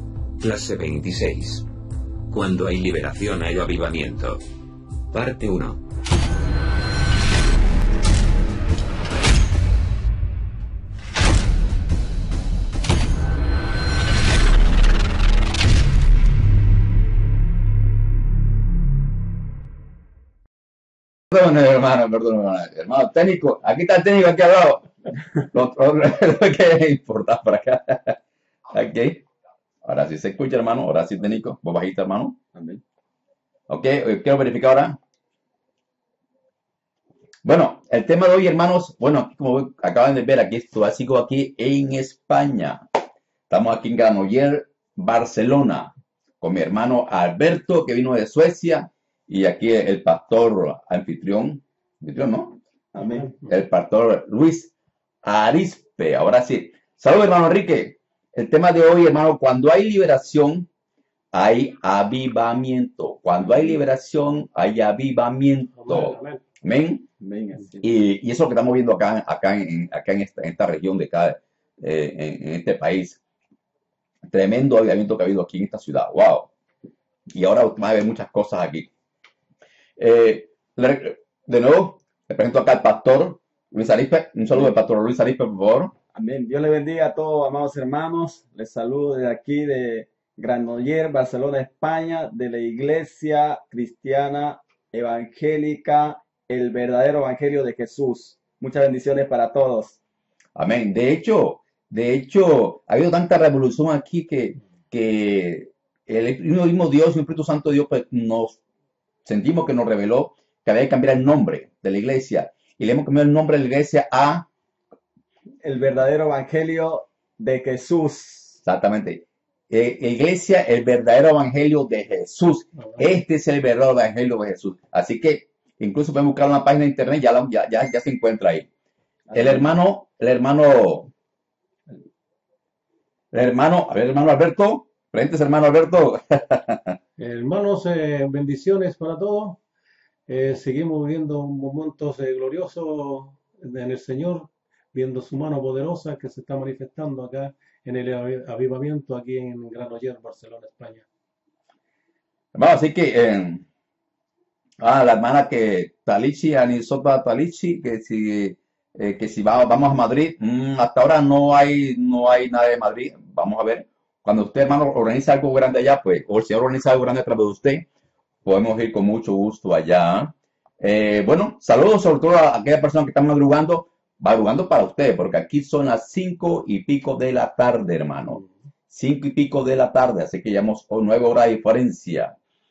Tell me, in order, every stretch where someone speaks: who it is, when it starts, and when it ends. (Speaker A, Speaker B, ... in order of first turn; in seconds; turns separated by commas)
Speaker A: 0.4-1.7, Speaker A: 2.3-4.4, Speaker A: 5.1-5.8, Speaker B: 21.3-24.9, Speaker B: 25.4-28.2, Speaker B: 28.7-29.3, Speaker B: 29.8-32.4, Speaker C: 32.5-32.8, Speaker B: 33.7-35.0, Speaker B: 37.5-42.8, Speaker B: 43.5-52.6, Speaker C: 52.9-53.3, Speaker D: 53.0-53.5, Speaker B: 53.5-54.7, Speaker B: 55.2-60.7, Speaker B: 61.3-67.0, Speaker D: 65.8-66.4, Speaker C: 67.2-68.0, Speaker B: 67.8-73.2, Speaker B: 74.3-76.5, Speaker B: 77.3-78.9, Speaker B: 80.0-85.9, Speaker C: 86.1-100.0, Speaker B: 100.6-108.6, Speaker B: 109.3-114.5, Speaker C: 115.6-118.6, Speaker B: 118.7-128.7, Speaker C: 129.3-129.7, Speaker B: 129.3-131.1, Speaker B: 133.3-136.9, Speaker D: 137.2-139.6, Speaker D: 140.3-151.1, Speaker B: 152.6-153.6, Speaker B: 154.8-167.9, Speaker B: 168.4-182.3